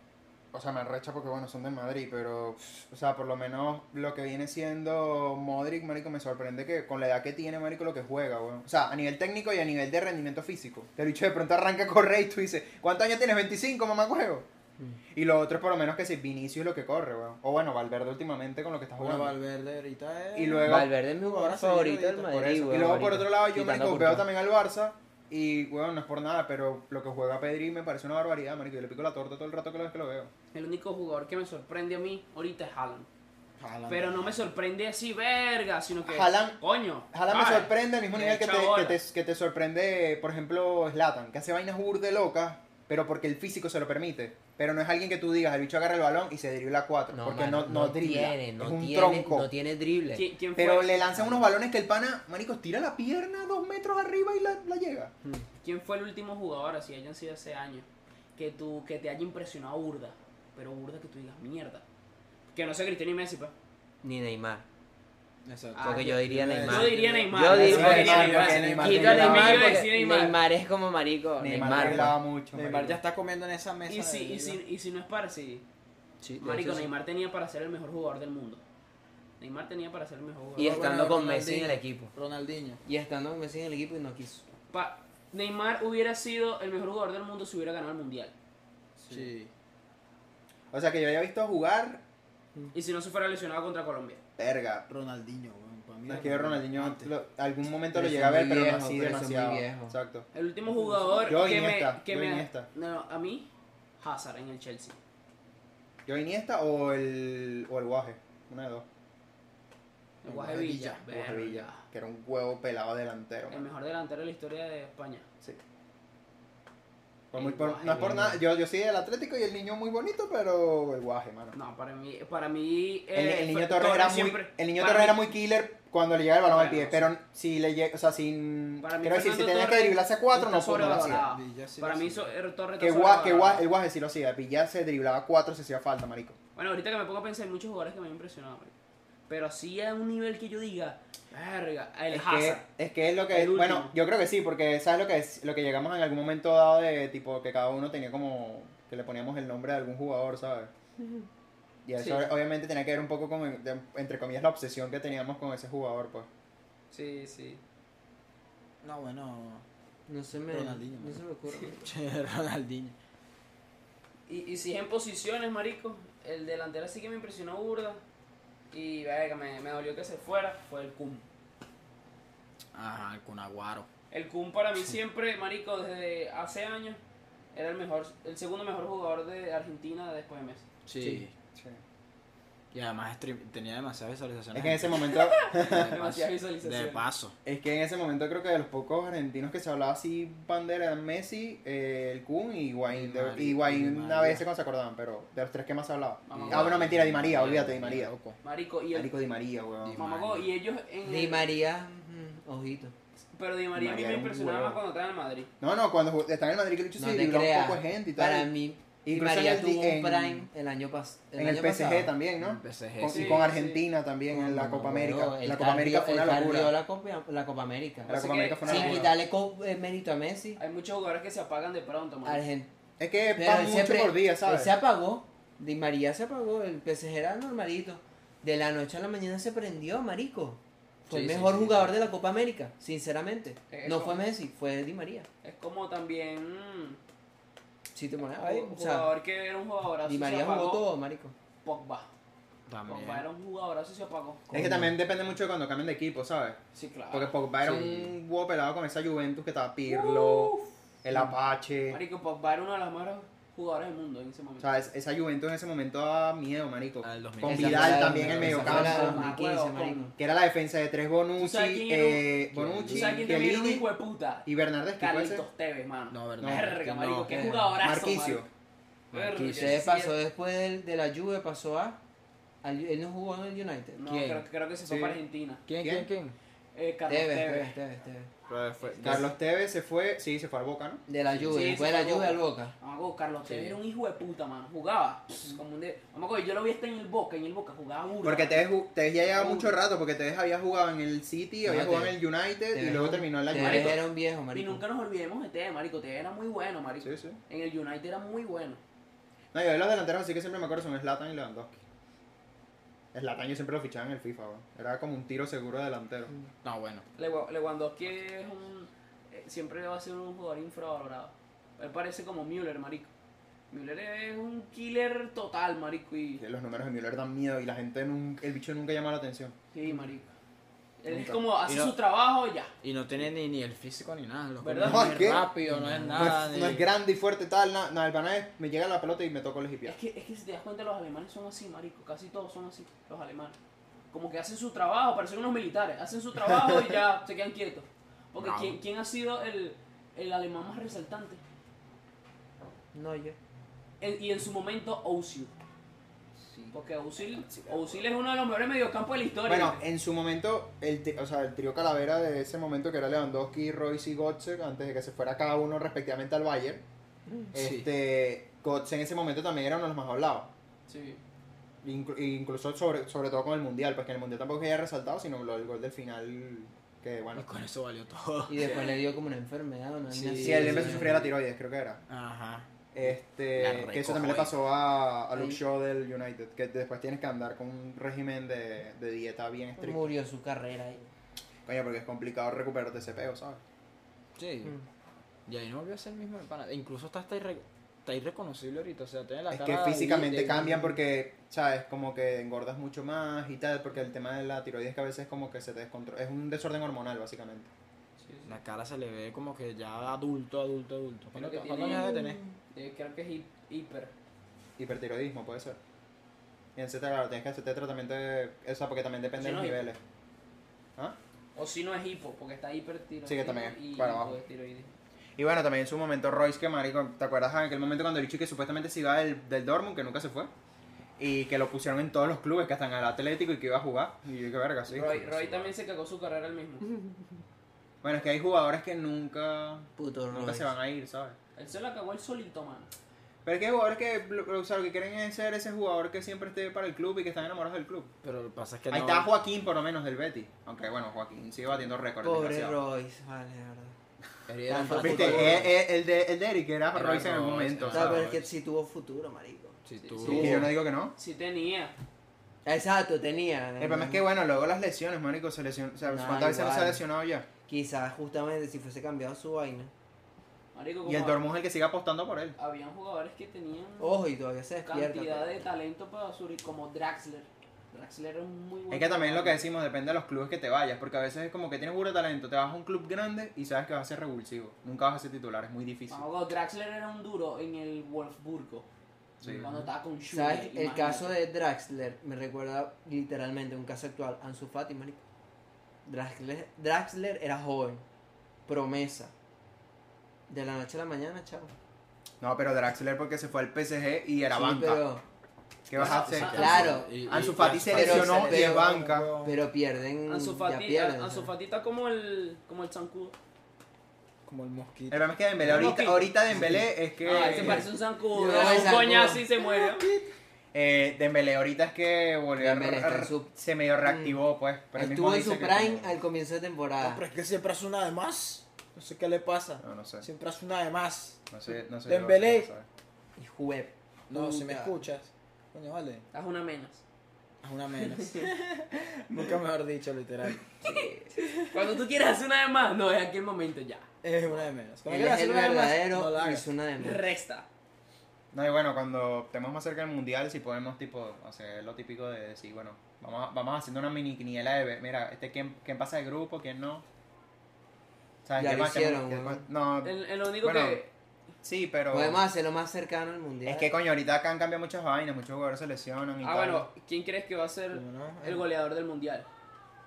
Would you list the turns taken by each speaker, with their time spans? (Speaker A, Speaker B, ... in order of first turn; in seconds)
Speaker A: 0.5-14.5, 15.1-19.4, 20.4-20.9, 22.4-30.3, 36.0-36.6, 37.1-49.5, 50.5-55.1, 67.6-69.8, 71.4-73.0, 90.7-92.0, 94.4-94.9, 96.1-100.3, 101.2-102.7, 106.0-108.9, 111.1-113.7, 117.3-121.5, 123.1-131.2, 132.8-136.4, 142.1-150.7, 151.9-156.3, 181.5-181.8, 184.5-185.9, 187.4-198.1, 198.9-200.0, 203.7-204.8, 205.6-208.5, 209.0-210.5, 211.4-216.7, 218.1-219.1, 223.0-224.7, 244.5-246.6, 247.1-252.0, 254.6-259.2, 260.2-263.9, 264.4-265.4, 266.4-266.7, 267.8-268.5, 274.8-275.2, 275.8-276.1, 279.0-281.0, 288.2-294.0, 297.0-297.4, 299.5-301.8, 303.1-306.3, 316.4-319.5, 321.1-321.4, 324.8-325.5, 326.1-330.0, 349.4-356.8, 357.5-360.5, 361.8-367.5, 370.4-372.0, 372.9-380.1, 381.6-383.6, 389.5-397.7, 404.8-405.8, 406.8-410.0, 413.2-414.4, 415.4-420.5, 421.2-425.7, 428.0-431.4, 433.4-438.1, 438.9-442.8, 445.0-448.2, 450.3-451.1, 453.8-457.4, 461.1-462.5, 468.9-476.2, 479.4-479.7, 492.4-495.0, 495.9-499.3, 505.1-507.9, 510.7-516.1, 519.8-520.2, 521.5-522.9, 538.5-547.0, 548.4-551.0, 551.6-552.4, 553.6-556.9
Speaker B: 19.0-22.6, 33.6-34.4, 65.4-69.8, 71.6-74.6, 80.6-82.8, 89.1-89.5, 94.9-97.1, 100.7-101.2, 110.2-111.0, 130.6-132.3, 158.8-159.6, 160.5-161.2, 161.8-162.9, 172.7-173.9, 180.9-181.3, 182.7-187.3, 192.9-194.4, 196.3-198.4, 199.8-200.5, 212.4-213.5, 231.1-231.9, 242.7-243.3, 244.5-244.9, 247.6-248.1, 257.0-259.1, 262.5-263.4, 266.1-267.8, 269.1-269.9, 274.0-274.4, 275.6-276.4, 278.5-279.3, 283.4-283.8, 306.6-307.0, 321.6-321.9, 322.8-326.9, 338.4-338.8, 347.3-348.0, 357.4-357.9, 367.3-368.6, 370.1-371.3, 372.1-372.7, 373.6-374.6, 384.4-384.8, 385.4-390.9, 398.4-402.4, 438.2-439.3, 444.5-445.7, 446.9-448.5, 449.9-450.6, 495.9-499.6, 504.4-506.0, 506.5-510.3, 517.0-521.5, 522.1-522.7, 524.3-526.2, 527.6-531.7, 534.2-536.7, 557.9-558.7
Speaker C: 20.6-24.3, 47.1-50.2, 64.0-64.6, 65.8-72.2, 76.2-76.9, 80.6-82.1, 82.8-84.4, 97.9-100.0, 160.1-161.9, 201.0-202.9, 207.0-212.1, 214.3-220.6, 222.2-222.7, 223.3-235.3, 237.9-239.1, 240.0-241.3, 257.4-260.1, 269.4-272.0, 272.6-274.0, 277.1-278.3, 281.1-282.7, 291.6-292.2, 292.7-294.8, 325.7-326.4, 342.9-343.4, 368.5-371.2, 379.8-381.0, 402.0-402.5, 430.0-430.7, 442.2-444.0, 444.7-445.7, 447.9-450.7, 452.6-454.2, 456.0-457.0, 457.7-459.9, 464.0-465.5, 480.3-485.2, 486.0-488.0, 488.7-489.3, 490.5-491.7, 494.5-495.2, 496.4-497.2, 497.8-501.5, 508.4-509.4, 512.6-514.4, 514.9-517.2, 523.4-525.0, 535.1-537.2, 548.6-549.6, 552.1-553.9
Speaker D: 30.5-33.1, 33.9-39.0, 50.1-51.4, 55.6-61.8, 62.5-63.5, 65.7-66.1, 66.6-70.4, 73.9-75.6, 76.4-78.6, 79.4-80.9, 84.7-88.3, 92.7-94.2, 100.3-103.5, 104.0-105.0, 110.2-111.8, 113.5-115.3, 117.3-118.4, 121.5-125.3, 126.5-127.1, 128.8-133.7, 136.6-138.7, 139.3-142.7, 143.3-143.9, 152.0-152.3, 156.9-157.6, 164.3-168.0, 168.7-171.2, 174.1-177.0, 177.5-180.6, 185.0-187.0, 196.2-196.9, 198.4-199.1, 200.0-201.5, 203.3-205.5, 213.0-213.8, 218.1-219.1, 220.6-222.4, 233.7-234.2, 235.4-237.0, 238.3-240.8, 241.6-242.1, 242.9-244.4, 246.7-247.3, 249.9-250.7, 251.9-254.7, 258.5-260.1, 261.4-262.3, 262.9-264.5, 265.0-268.4, 269.1-270.1, 274.0-275.6, 276.7-277.7, 281.4-288.7, 289.3-289.8, 293.5-298.8, 307.1-313.1, 313.7-316.4, 319.7-320.3, 321.0-322.7, 324.6-325.2, 329.9-333.6, 334.1-341.4, 344.0-345.5, 346.7-349.8, 360.9-361.2, 368.6-368.9, 398.2-398.6, 401.3-402.1, 402.7-404.1, 409.4-409.8, 411.5-414.9, 424.9-426.9, 431.6-432.9, 450.0-450.6, 451.1-451.9, 460.7-461.4, 462.6-464.2, 464.9-469.6, 476.1-478.9, 479.5-481.4, 496.4-496.8, 500.2-503.4, 505.7-506.3, 507.2-510.1, 526.3-527.0, 530.8-534.1, 537.0-537.7, 550.0-551.1, 556.4-559.5